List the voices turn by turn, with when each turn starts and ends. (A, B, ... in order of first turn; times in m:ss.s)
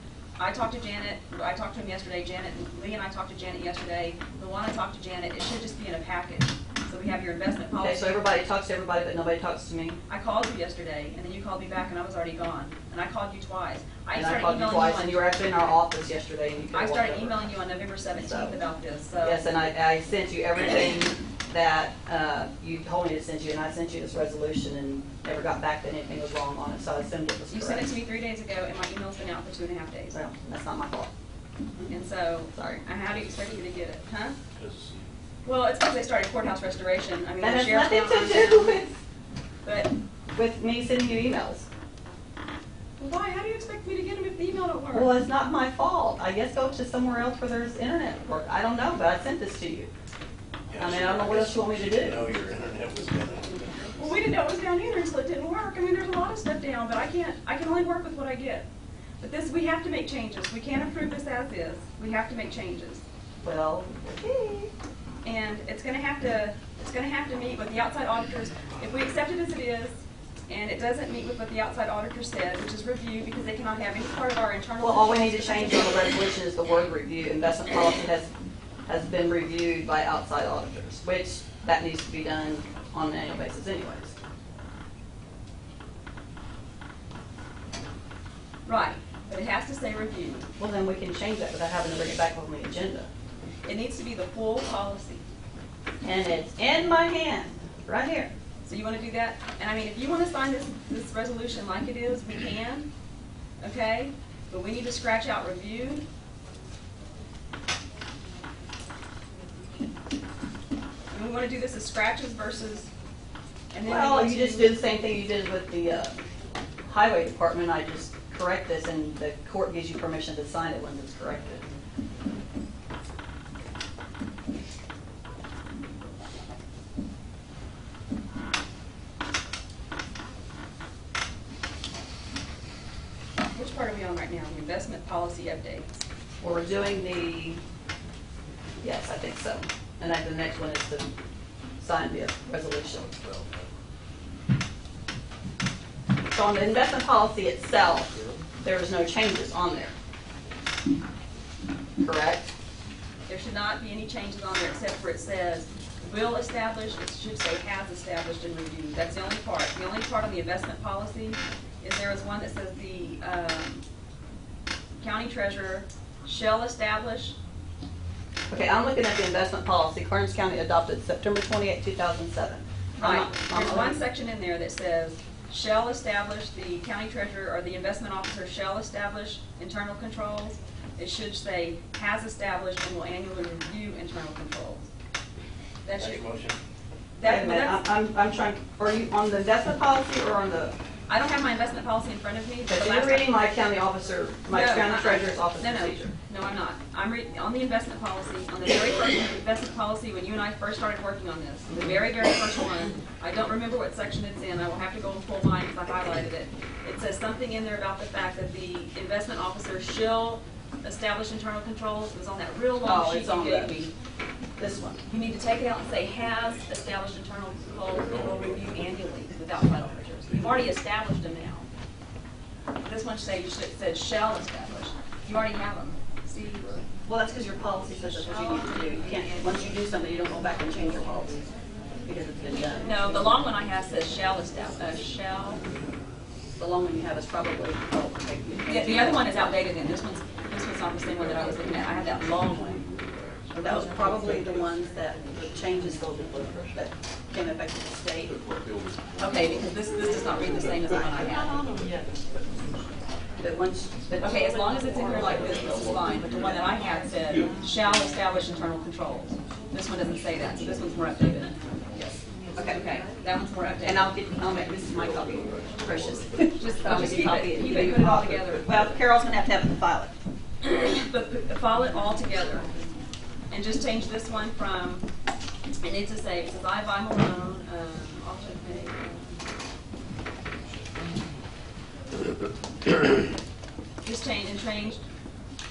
0:00.4-0:08.2 A
0:07.8-0:10.0 B
0:10.1-0:15.3 A
0:14.1-0:17.5 B
0:16.7-0:19.4 A
0:18.1-0:18.6 B
0:19.2-0:27.9 B
0:27.5-0:30.2 A
0:30.1-0:31.1 B
0:31.9-0:34.4 A
0:32.5-0:32.8 B
0:33.1-0:33.6 C
0:34.6-0:35.1 C
0:35.4-0:38.8 A
0:37.4-0:38.9 B
0:39.6-0:39.9 A
0:40.3-0:41.7 B
0:43.0-0:45.1 A
0:44.9-0:49.9 B
0:50.7-0:54.1 C
0:50.8-0:52.3 B
0:53.9-0:58.7 A
0:59.2-1:03.0 A
1:03.4-1:04.7 B
1:05.2-1:16.1 A
1:14.8-1:18.3 B
1:18.9-1:24.1 B
1:28.7-1:30.5 A
1:30.6-1:33.1 B
1:33.6-1:35.2 A
1:36.0-1:38.3 B
1:38.6-1:42.9 A
1:43.6-1:46.0 A
1:51.1-1:52.9 A
1:53.7-1:54.8 A
1:53.8-1:56.2 B
1:56.9-2:01.7 B
2:13.5-2:15.9 A
2:16.4-2:17.6 B
2:18.8-2:21.1 B
2:21.8-2:23.2 B
2:26.3-2:29.9 B
2:32.0-2:32.5 B
2:33.3-2:43.8 A
2:45.0-2:47.4 A
2:48.5-2:54.0 B
2:53.0-3:04.9 A
3:05.8-3:06.2 A
3:05.9-3:06.6 C
3:07.1-3:07.8 A
3:07.2-3:10.8 B
3:11.1-3:13.4 A
3:12.7-3:16.1 B
3:14.5-3:33.9 A
3:32.8-3:33.9 B
3:34.6-3:35.0 B
3:35.1-3:41.7 A
3:42.8-3:46.7 A
3:47.0-3:51.4 B
3:48.2-3:49.5 A
3:52.1-3:53.0 B
3:52.8-3:55.6 A
3:56.6-3:59.4 B
3:58.7-4:02.8 A
4:03.5-4:08.4 B
4:09.2-4:11.6 A
4:13.4-4:15.1 B
4:14.2-4:22.2 A
4:22.6-4:23.0 B
4:22.8-4:24.1 A
4:23.8-4:30.1 B
4:26.6-4:28.8 A
4:30.6-4:32.7 A
4:33.5-4:35.1 A
4:35.8-4:39.4 A
4:44.0-4:45.0 A